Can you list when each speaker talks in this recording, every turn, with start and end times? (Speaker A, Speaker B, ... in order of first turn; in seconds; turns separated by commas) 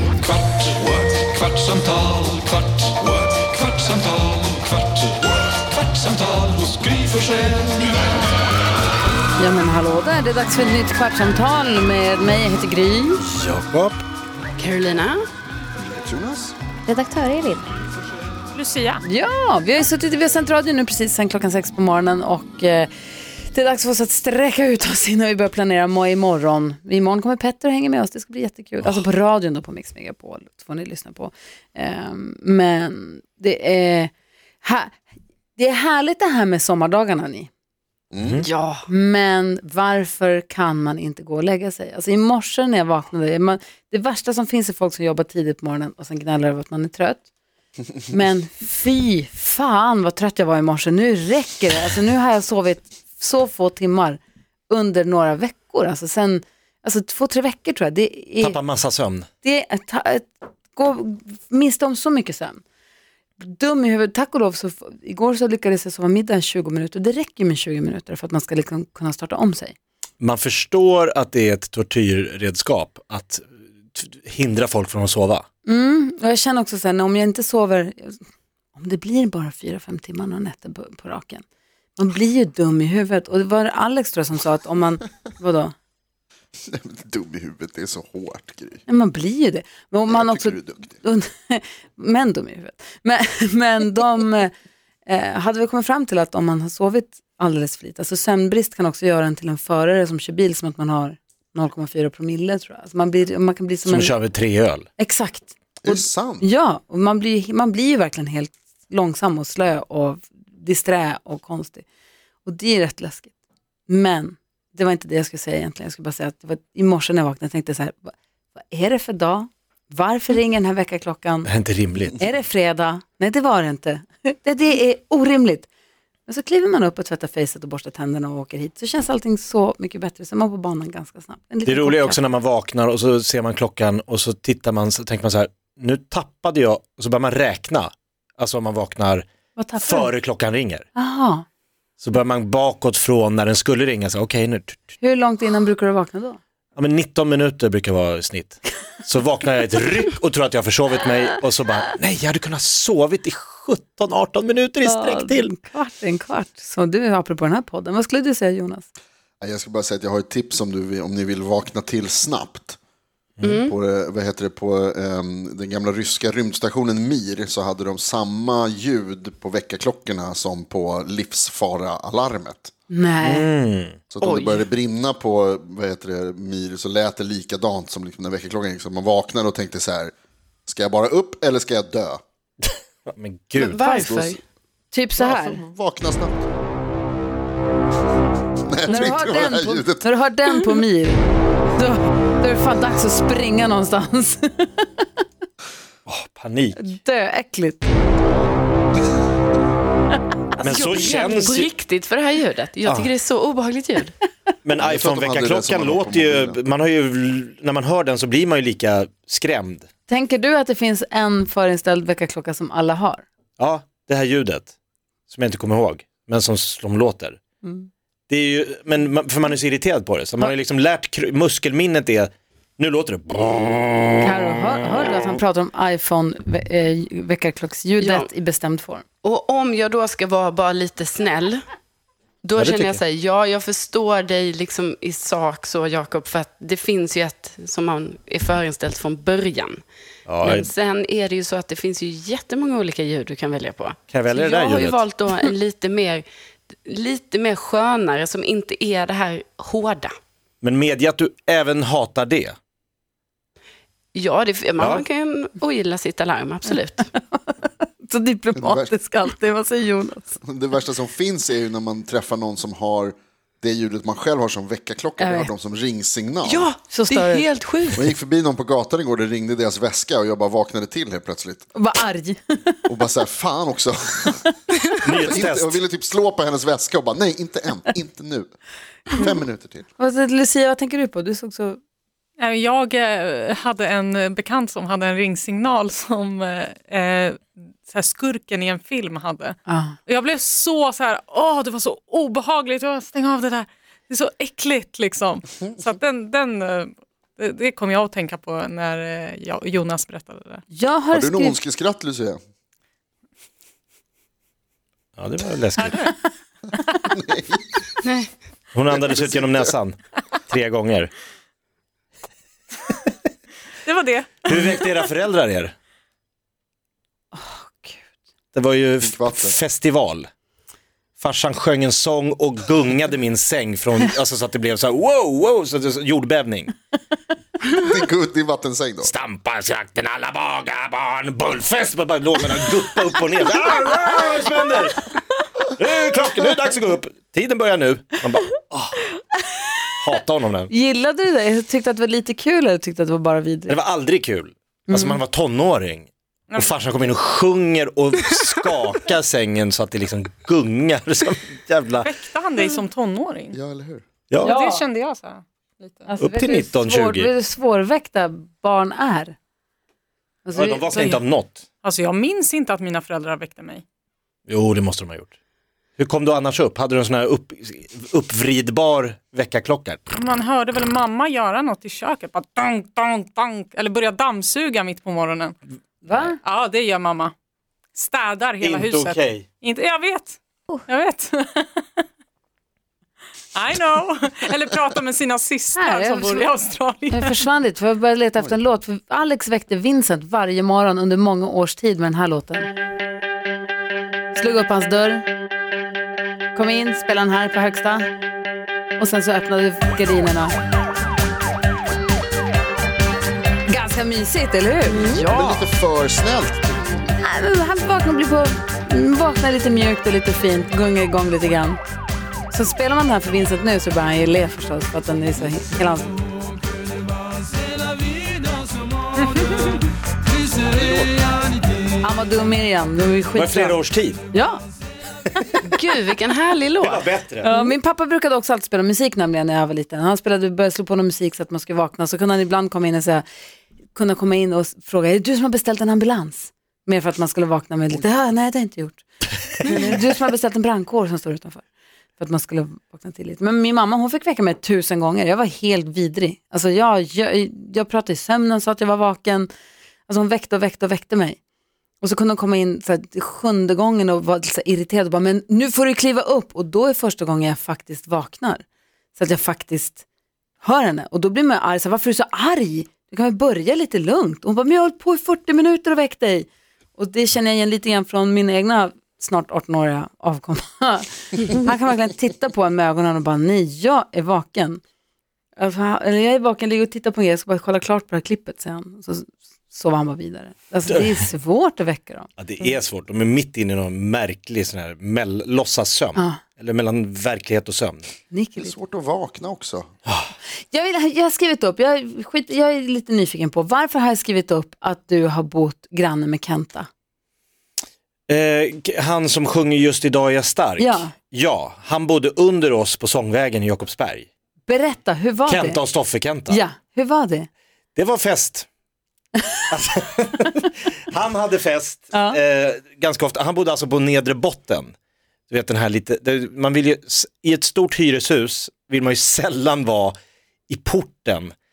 Speaker A: 0.7-2.5, Speaker A: 3.3-4.2, Speaker A: 6.0-7.6, Speaker B: 9.4-13.2, Speaker C: 13.2-14.0, Speaker D: 14.6-15.3, Speaker E: 15.8-16.5, Speaker B: 16.9-17.6, Speaker F: 18.5-19.0, Speaker B: 19.0-34.1, Speaker B: 34.6-35.0, Speaker B: 35.6-37.5, Speaker E: 38.1-38.4, Speaker D: 38.4-38.8, Speaker B: 38.9-47.2, Speaker B: 48.1-58.6, Speaker C: 58.4-59.3, Speaker B: 59.4-62.6, Speaker B: 63.4-69.8, Speaker C: 70.2-75.4, Speaker B: 75.7-78.2, Speaker B: 78.7-81.4, Speaker B: 82.0-85.7, Speaker E: 86.7-88.8, Speaker B: 88.9-94.5, Speaker E: 90.1-91.0, Speaker B: 95.0-104.1, Speaker C: 103.8-104.8, Speaker B: 105.0-111.8, Speaker E: 105.8-106.4, Speaker B: 112.4-113.3, Speaker B: 113.9-121.5, Speaker C: 121.4-122.2, Speaker B: 122.2-125.7, Speaker B: 126.2-132.2, Speaker C: 131.6-140.8, Speaker B: 139.6-140.1, Speaker B: 140.9-141.4, Speaker C: 142.0-144.9, Speaker B: 145.0-146.4, Speaker C: 146.8-155.5, Speaker B: 154.8-158.9, Speaker E: 159.4-162.8, Speaker D: 163.4-163.7, Speaker E: 163.6-172.7, Speaker B: 172.9-173.5, Speaker C: 173.2-174.0, Speaker E: 174.1-180.1, Speaker D: 174.2-174.7, Speaker E: 180.7-182.2, Speaker C: 182.7-184.0, Speaker D: 183.6-184.4, Speaker E: 184.1-184.3, Speaker B: 184.9-185.6, Speaker E: 185.2-186.5, Speaker E: 188.7-190.1, Speaker B: 188.9-194.9, Speaker C: 196.1-196.8, Speaker B: 196.8-197.8, Speaker C: 198.2-198.5, Speaker C: 200.6-201.7, Speaker D: 200.6-204.1, Speaker C: 202.8-203.1, Speaker C: 204.6-209.9, Speaker E: 204.8-206.6, Speaker B: 210.1-213.2, Speaker C: 213.6-214.7, Speaker C: 215.3-217.4, Speaker B: 217.6-217.9, Speaker C: 218.3-224.5, Speaker B: 224.2-229.0, Speaker D: 228.0-228.3, Speaker D: 229.2-231.6, Speaker D: 232.4-239.8, Speaker C: 232.5-233.0, Speaker C: 240.3-240.7, Speaker D: 240.4-246.2, Speaker C: 244.1-245.1, Speaker D: 246.8-250.1, Speaker C: 250.6-252.6, Speaker D: 254.1-257.1, Speaker C: 254.8-255.1, Speaker B: 257.1-260.4, Speaker E: 258.5-258.9, Speaker E: 260.4-266.7, Speaker B: 265.2-265.5, Speaker D: 266.4-268.1, Speaker B: 266.9-267.5, Speaker E: 267.9-271.7, Speaker B: 271.7-272.8, Speaker E: 272.9-274.5, Speaker D: 274.8-275.4, Speaker C: 275.0-275.8, Speaker E: 275.2-278.5, Speaker E: 279.1-279.8, Speaker B: 280.0-281.8, Speaker F: 282.4-300.6, Speaker B: 289.7-290.0, Speaker B: 300.7-301.6, Speaker E: 301.1-302.4, Speaker C: 305.2-306.1, Speaker F: 305.9-306.1, Speaker E: 307.0-307.8, Speaker D: 308.0-308.3, Speaker C: 308.7-310.0, Speaker E: 308.9-309.7, Speaker C: 310.5-311.1, Speaker F: 313.8-314.6, Speaker C: 314.4-315.7, Speaker B: 317.3-318.0, Speaker C: 318.5-320.3, Speaker E: 319.0-319.6, Speaker C: 321.2-326.7, Speaker E: 327.7-329.1, Speaker C: 329.0-335.1, Speaker C: 335.8-339.1, Speaker C: 340.0-340.7, Speaker B: 340.7-343.8, Speaker C: 343.7-352.1, Speaker B: 344.9-345.2, Speaker F: 352.0-353.6, Speaker E: 353.5-354.0, Speaker F: 354.4-356.1, Speaker B: 354.4-354.8, Speaker B: 356.1-359.4, Speaker C: 356.2-357.3, Speaker B: 360.4-361.2, Speaker C: 360.5-361.6, Speaker F: 360.9-361.2, Speaker F: 361.8-363.8, Speaker C: 364.5-365.3, Speaker C: 366.0-370.0, Speaker F: 370.1-375.6, Speaker B: 376.0-376.4, Speaker F: 376.4-377.3, Speaker F: 377.9-381.8, Speaker C: 378.6-379.4, Speaker F: 383.5-387.4, Speaker B: 385.7-386.5, Speaker B: 387.1-392.7, Speaker B: 394.3-395.3, Speaker B: 396.5-398.1, Speaker B: 399.0-400.5, Speaker B: 403.7-405.6, Speaker D: 405.0-405.2, Speaker E: 405.1-406.8, Speaker B: 407.2-411.8, Speaker B: 412.5-416.2, Speaker C: 420.7-421.3, Speaker B: 422.0-423.8, Speaker C: 423.3-424.2, Speaker B: 424.3-424.6, Speaker C: 425.4-425.7, Speaker D: 425.6-427.2, Speaker C: 426.8-427.5, Speaker B: 427.4-433.2, Speaker B: 433.9-441.6, Speaker B: 442.2-449.5, Speaker B: 450.1-451.4, Speaker B: 452.0-458.6, Speaker B: 459.1-460.0, Speaker B: 460.6-474.8, Speaker B: 475.6-482.3, Speaker C: 482.4-488.1, Speaker B: 486.1-486.4, Speaker B: 488.3-488.7, Speaker E: 488.6-489.9, Speaker C: 490.1-490.3, Speaker B: 490.7-496.9, Speaker C: 498.3-504.3, Speaker B: 500.8-501.1, Speaker B: 504.6-505.8, Speaker C: 505.5-506.6, Speaker B: 506.5-507.5, Speaker C: 507.9-508.7, Speaker C: 509.7-514.9, Speaker B: 512.1-512.4, Speaker C: 515.5-520.1, Speaker C: 520.7-521.5